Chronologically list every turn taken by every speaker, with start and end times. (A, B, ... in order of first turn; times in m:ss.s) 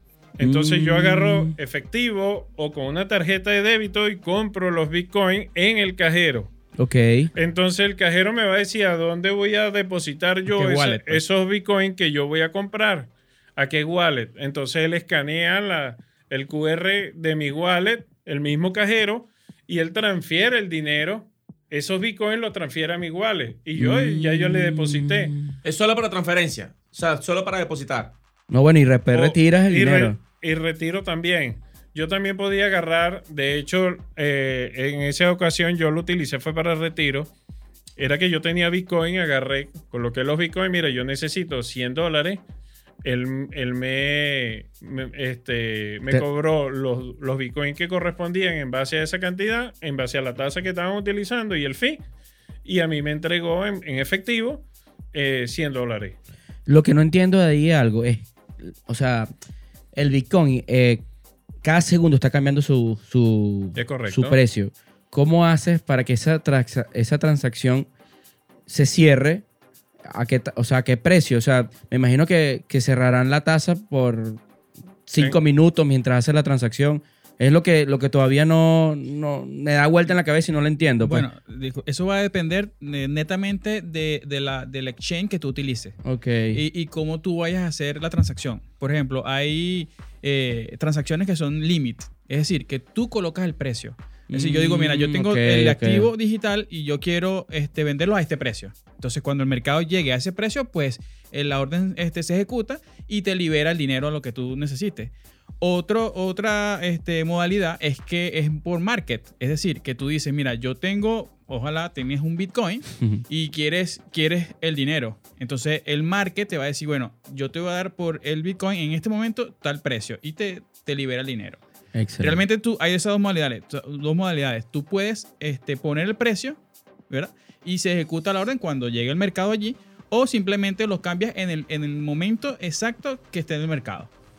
0:00.4-0:06.5 A
0:00.4-0:01.6 B
0:06.8-0:07.3 B
0:07.4-0:25.3 A
0:10.5-0:11.2 C
0:23.8-0:25.5 B
0:25.6-0:28.1 D
0:28.5-0:30.2 B
0:29.1-0:37.3 A
0:38.0-0:42.4 A
0:43.0-0:52.0 A
0:52.6-0:56.2 A
0:56.7-0:59.3 B
1:00.0-1:01.0 B
1:01.6-1:07.9 B
1:03.8-1:04.4 A
1:08.7-1:09.4 B
1:10.1-1:14.4 B
1:15.1-1:21.3 B
1:21.0-1:26.0 C
1:26.0-1:26.6 B
1:26.5-2:01.6 C
1:34.3-1:36.1 B
2:01.9-2:02.4 B
2:02.2-2:06.6 C
2:07.1-2:14.1 C